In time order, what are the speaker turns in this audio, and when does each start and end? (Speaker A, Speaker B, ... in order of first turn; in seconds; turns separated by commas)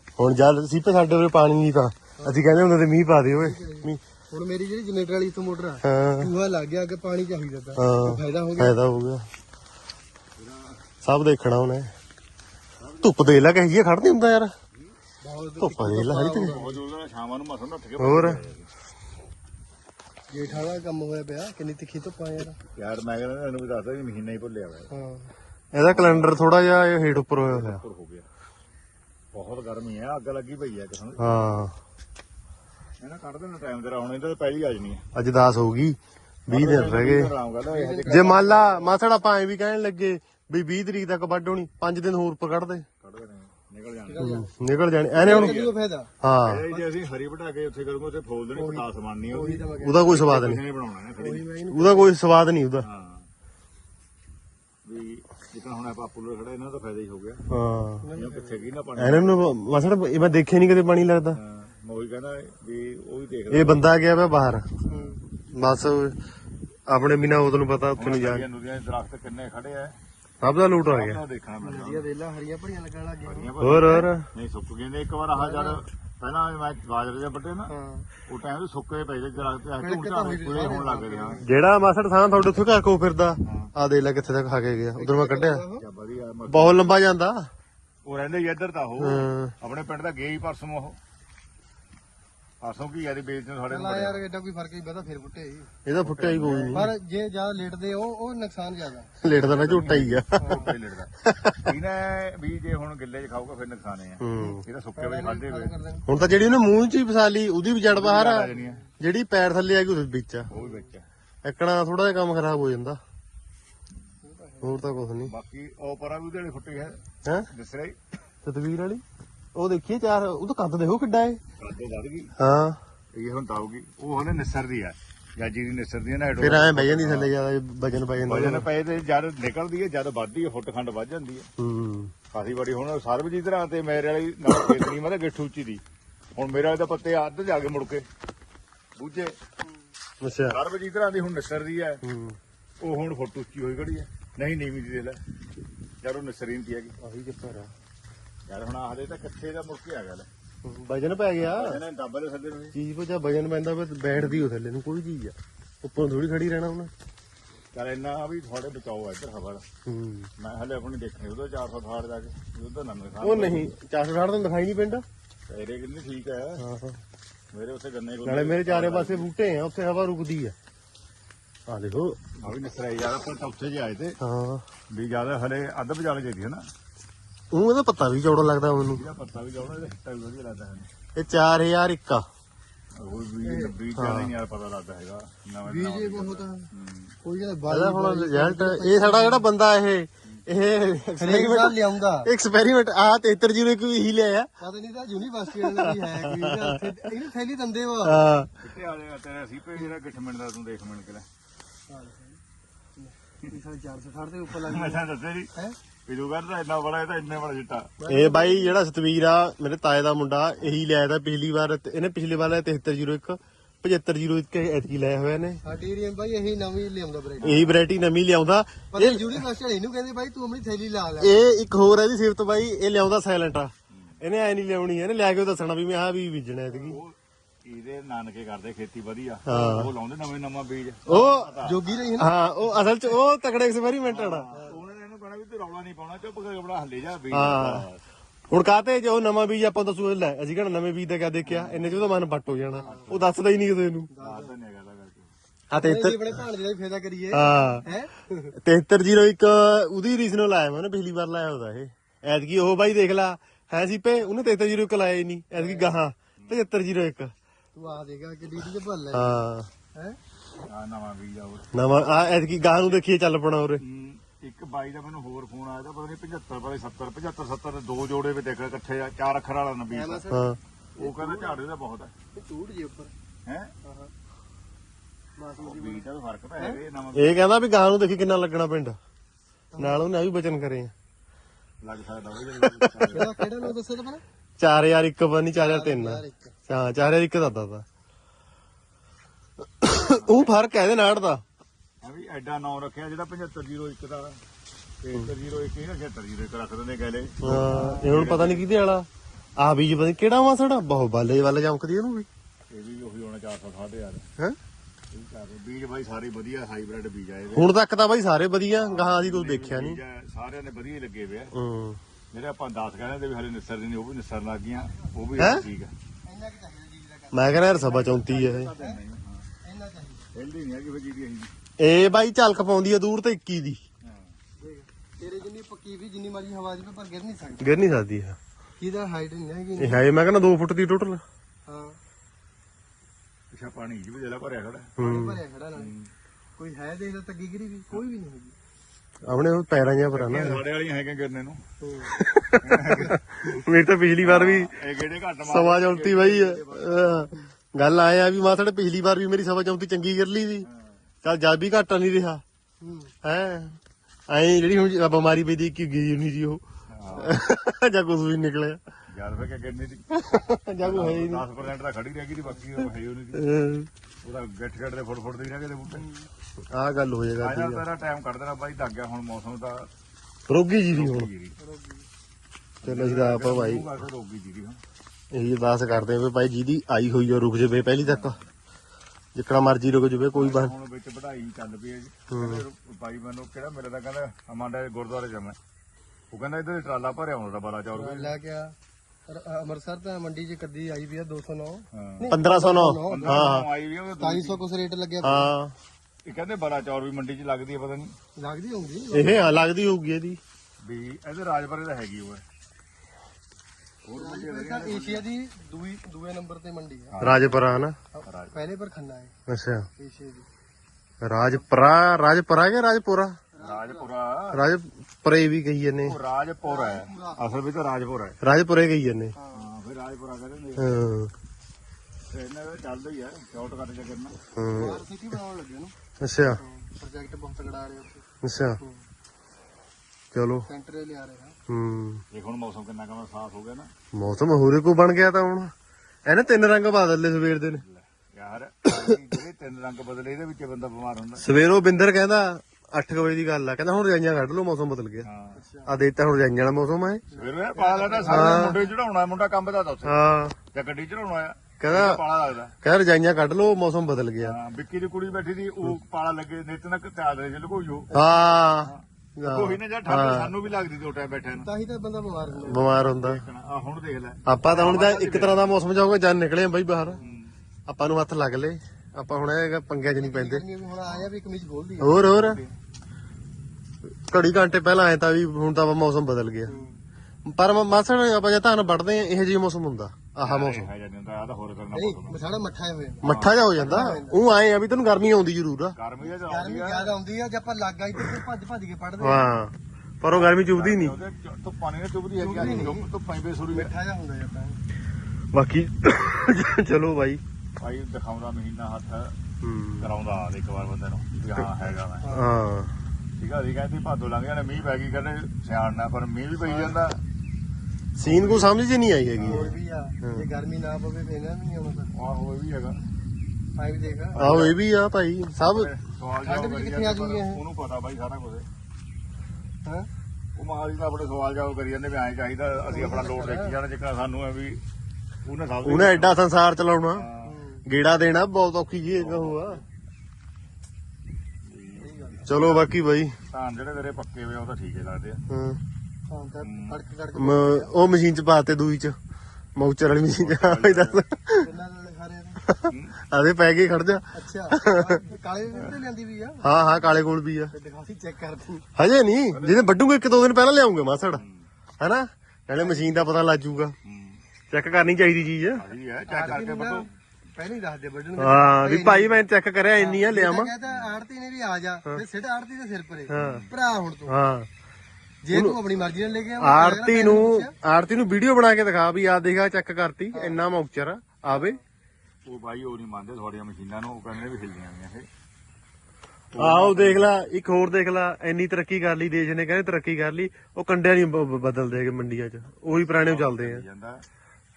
Speaker A: 0.2-4.0, Speaker B: 2.2-2.4, Speaker B: 3.4-8.8, Speaker A: 5.8-6.3, Speaker A: 7.8-9.3, Speaker C: 10.4-10.8, Speaker A: 11.0-11.9, Speaker C: 12.8-13.4, Speaker A: 13.0-14.5, Speaker B: 15.2-16.8, Speaker A: 15.6-16.6, Speaker C: 16.4-18.7, Speaker A: 18.0-18.4, Speaker B: 20.3-22.6, Speaker C: 20.5-20.7, Speaker C: 22.8-24.9, Speaker B: 24.9-25.3, Speaker A: 25.7-27.8, Speaker C: 25.8-26.3, Speaker C: 27.3-28.3, Speaker C: 29.3-31.3, Speaker A: 31.2-31.7, Speaker C: 33.0-35.0, Speaker A: 35.1-37.3, Speaker C: 36.5-38.7, Speaker B: 37.7-38.8, Speaker A: 38.0-42.9, Speaker C: 43.0-44.3, Speaker B: 44.1-44.5, Speaker A: 44.2-45.6, Speaker C: 45.1-45.8, Speaker B: 45.2-46.1, Speaker A: 46.2-46.6, Speaker C: 46.4-51.5, Speaker B: 48.5-50.3, Speaker A: 49.8-50.6, Speaker B: 51.2-52.1, Speaker A: 51.7-52.9, Speaker C: 52.8-53.3, Speaker C: 54.9-57.4, Speaker A: 57.5-58.1, Speaker B: 58.0-58.7, Speaker C: 58.1-59.5, Speaker A: 59.0-61.4, Speaker C: 61.4-63.9, Speaker A: 63.5-64.7, Speaker C: 64.9-65.2, Speaker B: 64.9-65.2, Speaker A: 65.5-66.2, Speaker A: 66.9-68.5, Speaker C: 68.0-70.0, Speaker A: 70.4-71.2, Speaker C: 70.7-72.1, Speaker B: 71.6-74.1, Speaker C: 73.3-77.7, Speaker A: 73.6-74.3, Speaker B: 75.4-75.8, Speaker B: 77.7-78.1, Speaker C: 78.3-81.4, Speaker B: 79.8-81.5, Speaker A: 81.4-85.6, Speaker C: 83.5-83.7, Speaker B: 85.0-85.9, Speaker C: 85.8-86.8, Speaker A: 86.5-87.5, Speaker C: 88.0-91.0, Speaker A: 89.0-89.5, Speaker C: 92.6-94.2, Speaker B: 93.7-95.7, Speaker A: 95.9-96.9, Speaker C: 96.0-96.9, Speaker B: 96.7-99.1, Speaker A: 99.2-100.7, Speaker C: 99.3-105.7, Speaker B: 100.4-100.7, Speaker A: 101.2-101.7, Speaker A: 104.2-104.7, Speaker B: 104.4-106.1, Speaker A: 106.1-110.5, Speaker C: 107.8-108.8, Speaker B: 108.6-108.9, Speaker B: 110.5-110.9, Speaker C: 110.5-111.0, Speaker A: 111.4-113.0, Speaker B: 114.2-114.9, Speaker A: 114.6-115.3, Speaker C: 115.2-117.0, Speaker C: 117.5-118.0, Speaker A: 118.5-119.0, Speaker A: 119.6-121.4, Speaker C: 121.6-122.3, Speaker A: 122.4-122.8, Speaker C: 123.2-127.3, Speaker A: 126.4-128.7, Speaker C: 128.3-131.5, Speaker A: 131.6-132.1, Speaker C: 132.3-135.8, Speaker C: 136.4-138.1, Speaker C: 139.0-139.4, Speaker A: 140.2-140.6, Speaker C: 140.5-142.0, Speaker A: 142.0-142.4, Speaker C: 142.8-145.2, Speaker C: 146.0-147.0, Speaker A: 147.0-147.7, Speaker C: 148.5-150.3, Speaker A: 150.6-151.8, Speaker C: 151.4-152.8, Speaker A: 152.7-156.9, Speaker C: 154.1-154.5, Speaker C: 157.7-159.6, Speaker A: 159.9-160.3, Speaker C: 160.4-163.7, Speaker A: 163.2-165.1, Speaker C: 165.5-166.6, Speaker A: 166.6-167.0, Speaker C: 167.5-169.3, Speaker A: 168.2-170.6, Speaker A: 171.7-172.2, Speaker C: 172.4-174.2, Speaker A: 174.2-174.6, Speaker C: 174.9-176.6, Speaker A: 177.5-179.1, Speaker C: 178.9-180.9, Speaker A: 181.2-182.3, Speaker C: 183.0-187.2, Speaker B: 183.4-183.7, Speaker A: 184.0-184.3, Speaker B: 185.7-186.7, Speaker B: 187.2-189.5, Speaker A: 187.7-194.5, Speaker B: 191.2-192.3, Speaker B: 194.6-198.3, Speaker A: 195.6-196.9, Speaker A: 198.1-198.5, Speaker C: 198.6-201.3, Speaker B: 201.9-202.4, Speaker B: 203.0-205.8, Speaker C: 204.6-205.5, Speaker C: 206.1-207.9, Speaker B: 208.0-208.8, Speaker A: 208.1-215.6, Speaker B: 215.6-217.6, Speaker C: 217.4-217.8, Speaker A: 217.4-219.4, Speaker B: 218.9-221.4, Speaker A: 221.2-227.0, Speaker C: 223.9-224.2, Speaker C: 226.7-232.0, Speaker A: 229.5-229.9, Speaker A: 231.1-231.5, Speaker B: 231.1-232.3, Speaker A: 232.2-234.5, Speaker C: 234.1-238.0, Speaker A: 237.3-237.9, Speaker A: 238.5-244.1, Speaker C: 241.4-242.0, Speaker C: 242.8-243.3, Speaker B: 242.8-243.1, Speaker B: 244.1-244.5, Speaker C: 244.2-245.3, Speaker A: 245.7-246.3, Speaker B: 245.8-248.5, Speaker A: 247.3-247.8, Speaker A: 248.6-257.3, Speaker B: 255.6-256.0, Speaker C: 256.4-256.6, Speaker B: 257.8-259.4, Speaker A: 259.1-259.7, Speaker C: 260.7-263.0, Speaker A: 261.7-263.8, Speaker C: 263.8-270.2, Speaker B: 269.9-271.6, Speaker A: 270.3-270.6, Speaker C: 271.0-272.1, Speaker B: 272.3-273.1, Speaker C: 273.5-273.7, Speaker B: 273.8-274.1, Speaker B: 275.4-276.1, Speaker C: 275.6-277.4, Speaker A: 277.1-279.0, Speaker B: 279.7-280.1, Speaker A: 279.8-280.9, Speaker C: 281.8-283.5, Speaker A: 282.6-282.9, Speaker B: 283.1-284.2, Speaker A: 284.6-287.9, Speaker B: 285.6-286.6, Speaker A: 289.6-291.4, Speaker C: 290.1-290.5, Speaker C: 292.0-294.4, Speaker C: 295.0-298.7, Speaker A: 297.4-299.1, Speaker A: 299.6-302.3, Speaker C: 302.7-304.3, Speaker C: 305.1-307.7, Speaker A: 307.5-310.0, Speaker C: 308.7-311.5, Speaker A: 311.5-312.0, Speaker C: 312.3-315.9, Speaker A: 315.4-315.7, Speaker B: 316.3-319.0, Speaker A: 317.3-318.7, Speaker C: 317.6-319.5, Speaker B: 319.6-320.3, Speaker C: 320.3-321.5, Speaker A: 321.8-323.8, Speaker C: 324.0-324.4, Speaker B: 324.6-327.8, Speaker A: 327.6-328.4, Speaker B: 328.8-330.1, Speaker A: 329.8-331.2, Speaker B: 331.7-332.0, Speaker C: 333.5-334.9, Speaker A: 335.0-335.4, Speaker B: 335.0-335.9, Speaker C: 335.8-336.1, Speaker B: 336.6-338.6, Speaker A: 339.2-340.6, Speaker C: 340.1-341.6, Speaker B: 341.8-342.2, Speaker A: 342.1-344.8, Speaker C: 342.6-343.2, Speaker C: 344.2-347.3, Speaker A: 345.4-350.7, Speaker C: 350.6-350.9, Speaker A: 351.2-352.4, Speaker B: 352.8-353.1, Speaker A: 353.2-356.6, Speaker C: 356.9-357.4, Speaker A: 357.1-358.8, Speaker C: 359.1-360.1, Speaker A: 360.1-361.5, Speaker C: 360.8-363.5, Speaker A: 363.4-363.9, Speaker C: 364.2-366.1, Speaker B: 365.9-366.3, Speaker A: 366.7-367.8, Speaker C: 367.4-369.9, Speaker A: 370.5-371.3, Speaker C: 370.9-371.6, Speaker B: 371.6-372.1, Speaker C: 372.8-374.8, Speaker A: 372.8-373.9, Speaker A: 375.3-378.4, Speaker C: 378.0-378.5, Speaker A: 379.4-380.7, Speaker C: 380.3-385.6, Speaker A: 382.3-382.6, Speaker C: 386.3-388.4, Speaker B: 387.9-388.8, Speaker B: 389.3-393.6, Speaker C: 391.9-392.3, Speaker A: 392.3-393.7, Speaker C: 393.1-394.6, Speaker B: 394.2-395.5, Speaker A: 395.2-395.8, Speaker C: 396.2-398.1, Speaker B: 398.4-399.5, Speaker A: 399.1-400.4, Speaker C: 400.8-402.4, Speaker C: 404.0-405.2, Speaker B: 404.1-407.1, Speaker C: 407.1-407.7, Speaker A: 407.2-408.0, Speaker B: 408.1-409.4, Speaker C: 408.2-408.5, Speaker A: 409.5-409.9, Speaker B: 410.0-410.5, Speaker A: 411.2-413.4, Speaker B: 413.5-414.1, Speaker C: 413.6-414.6, Speaker A: 414.5-416.2, Speaker C: 416.0-418.4, Speaker B: 416.6-417.5, Speaker A: 418.4-419.3, Speaker B: 419.4-419.7, Speaker C: 419.5-421.1, Speaker A: 420.8-421.3, Speaker C: 422.3-424.4, Speaker A: 424.6-425.0, Speaker B: 424.7-428.3, Speaker A: 426.2-426.6, Speaker A: 428.4-428.8, Speaker A: 430.3-430.7, Speaker B: 430.7-431.6, Speaker A: 431.7-432.2, Speaker C: 432.3-433.9, Speaker A: 434.1-435.7, Speaker A: 436.3-437.8, Speaker C: 437.7-441.4, Speaker A: 438.9-439.2, Speaker A: 441.4-445.3, Speaker C: 445.2-445.6, Speaker B: 445.5-445.9, Speaker A: 445.9-447.2, Speaker B: 447.3-448.9, Speaker C: 447.4-450.2, Speaker A: 448.3-448.8, Speaker A: 450.1-450.6, Speaker C: 450.7-452.7, Speaker A: 451.8-452.2, Speaker A: 452.8-454.6, Speaker C: 454.4-461.7, Speaker A: 458.1-460.6, Speaker B: 461.6-462.9, Speaker A: 462.6-463.4, Speaker C: 462.8-465.7, Speaker A: 464.5-467.2, Speaker B: 467.0-467.4, Speaker C: 467.2-467.5, Speaker A: 467.9-470.6, Speaker B: 470.2-472.3, Speaker A: 472.0-472.6, Speaker C: 472.2-472.7, Speaker A: 474.3-476.7, Speaker B: 476.7-477.0, Speaker A: 477.4-480.9, Speaker C: 480.4-482.4, Speaker B: 481.9-484.4, Speaker A: 483.2-485.9, Speaker C: 483.2-484.1, Speaker C: 486.0-487.1, Speaker B: 486.2-489.5, Speaker A: 489.2-491.2, Speaker C: 490.3-493.9, Speaker B: 492.4-493.1, Speaker A: 492.6-492.9, Speaker B: 493.7-494.8, Speaker A: 495.5-497.4, Speaker C: 497.8-499.4, Speaker A: 499.6-500.1, Speaker C: 500.0-502.3, Speaker B: 502.2-502.5, Speaker A: 502.3-502.9, Speaker C: 503.4-507.2, Speaker A: 508.2-510.4, Speaker C: 508.2-508.7, Speaker C: 509.4-509.7, Speaker B: 509.5-512.1, Speaker C: 512.1-513.0, Speaker B: 513.8-514.4, Speaker C: 514.3-514.8, Speaker A: 514.4-515.9, Speaker C: 515.6-518.7, Speaker B: 516.4-517.6, Speaker C: 520.6-524.8, Speaker B: 522.9-523.8, Speaker C: 525.5-526.4, Speaker A: 525.9-527.3, Speaker C: 527.1-527.6, Speaker B: 527.4-527.9, Speaker A: 527.9-529.8, Speaker C: 529.1-529.8, Speaker C: 531.6-532.9, Speaker B: 532.0-532.5, Speaker A: 532.5-533.4, Speaker C: 533.5-535.4, Speaker A: 535.5-535.8, Speaker B: 536.3-538.0, Speaker C: 536.6-537.0, Speaker A: 537.4-539.2, Speaker A: 539.8-541.7, Speaker C: 540.2-541.2, Speaker B: 541.5-542.6, Speaker A: 542.7-545.2, Speaker C: 542.9-543.2, Speaker B: 544.3-546.7, Speaker A: 546.6-547.7, Speaker B: 547.7-548.9, Speaker A: 549.0-551.5, Speaker C: 549.5-549.8, Speaker C: 551.3-551.7, Speaker A: 552.0-554.0, Speaker B: 552.8-553.2, Speaker C: 554.0-554.4, Speaker A: 554.7-555.9, Speaker C: 555.8-557.1, Speaker B: 556.3-559.5, Speaker A: 558.4-560.7, Speaker B: 560.0-564.4, Speaker C: 560.9-561.1, Speaker A: 563.3-563.7, Speaker C: 563.4-563.7, Speaker A: 564.3-564.7, Speaker B: 565.4-567.7, Speaker A: 565.5-565.8, Speaker A: 566.6-571.8, Speaker B: 570.3-570.6, Speaker B: 571.5-571.8, Speaker C: 572.5-575.3, Speaker C: 576.5-577.3, Speaker A: 576.6-583.8, Speaker C: 582.9-584.2